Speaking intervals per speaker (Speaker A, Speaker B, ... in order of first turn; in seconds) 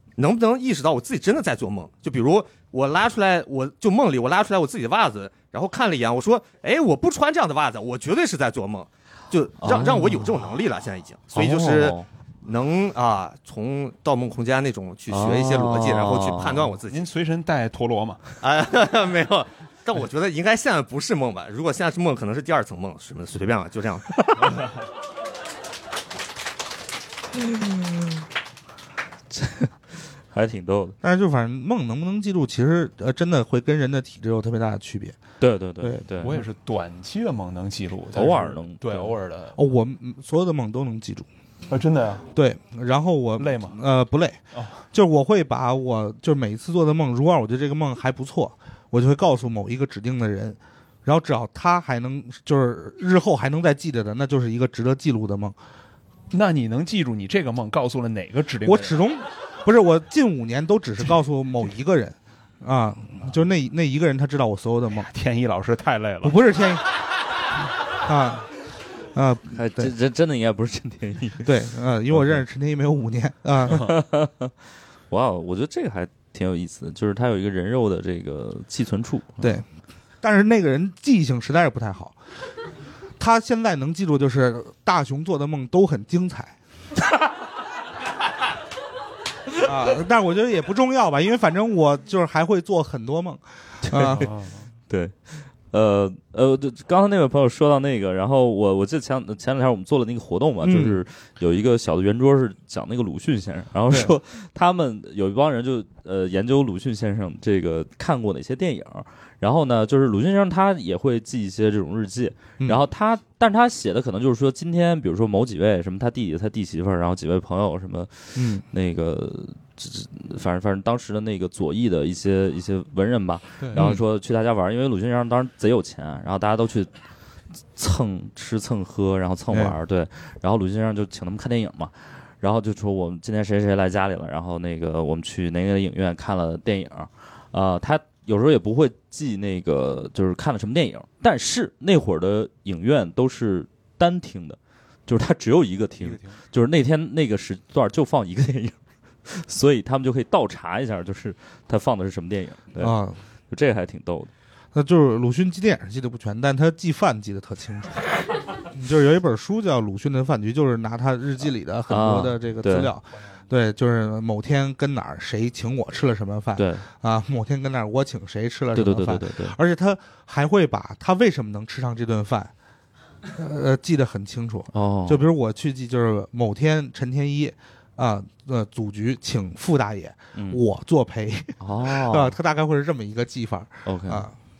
Speaker A: 0.2-17.0, 18.4-24.3
Speaker B: 9.6-10.3, 11.3-12.1, 15.1-16.7, 29.3-29.7, 30.3-31.0, 35.4-36.4, 38.1-39.1, 69.5-71.5, 73.7-74.5, 75.1-79.5, 93.8-94.2, 94.9-126.9, 127.7-152.9, 153.5-154.3, 161.9-162.9, 166.6-166.8, 168.7-169.6, 174.7-175.3, 180.3-180.6, 181.6-182.3, 183.8-184.3
Speaker C: 16.9-18.2, 24.4-24.7, 36.2-39.6, 41.7-42.3, 43.4-43.8, 44.5-44.8, 56.3-59.0, 65.1-66.4, 94.2-94.7, 146.0-146.4
Speaker D: 31.0-35.2, 39.5-41.3, 42.3-55.5, 58.6-65.1, 66.2-66.9, 68.0-68.5, 69.1-69.9, 71.4-73.8, 80.2-82.2, 83.2-86.5, 89.6-94.3, 100.6-101.0, 118.3-118.6, 123.7-124.0, 129.5-129.8, 152.8-153.2, 154.7-158.1, 158.7-172.5, 173.3-184.3